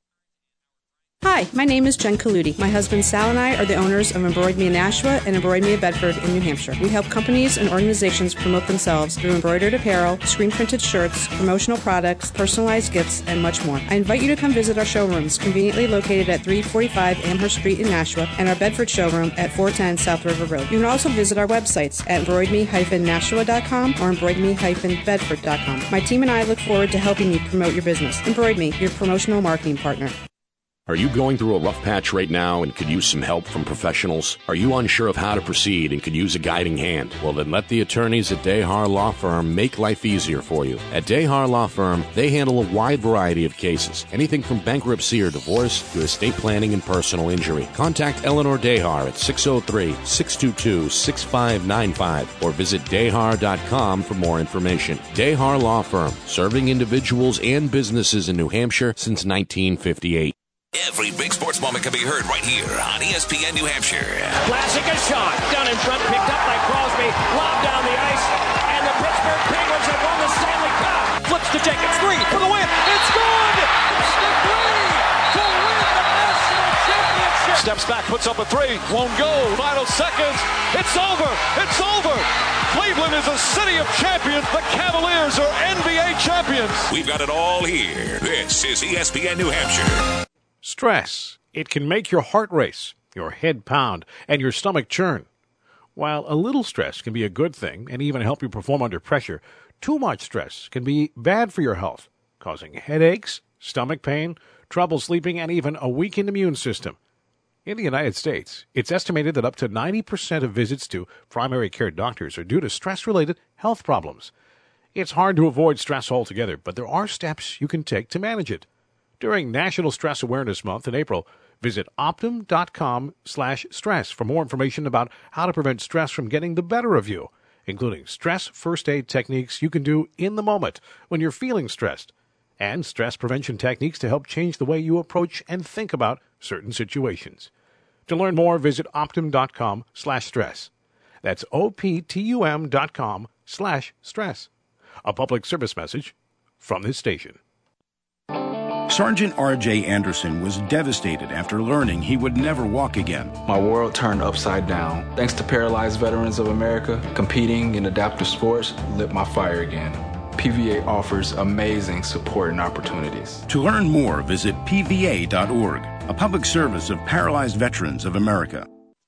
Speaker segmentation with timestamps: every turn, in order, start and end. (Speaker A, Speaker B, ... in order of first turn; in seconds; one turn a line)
Speaker A: 1.2-30.1
Speaker B: 30.9-60.3
Speaker C: 60.7-64.4
Speaker D: 64.4-77.6
Speaker E: 77.5-86.9
Speaker C: 86.9-90.1
Speaker F: 90.6-95.3
Speaker F: 96.0-107.0
Speaker F: 107.7-114.3
Speaker F: 115.0-118.7
Speaker F: 119.2-137.5
Speaker F: 138.1-140.7
Speaker F: 141.2-144.5
Speaker F: 145.0-147.4
Speaker G: 148.9-153.4
Speaker H: 153.4-163.4
Speaker G: 163.5-168.7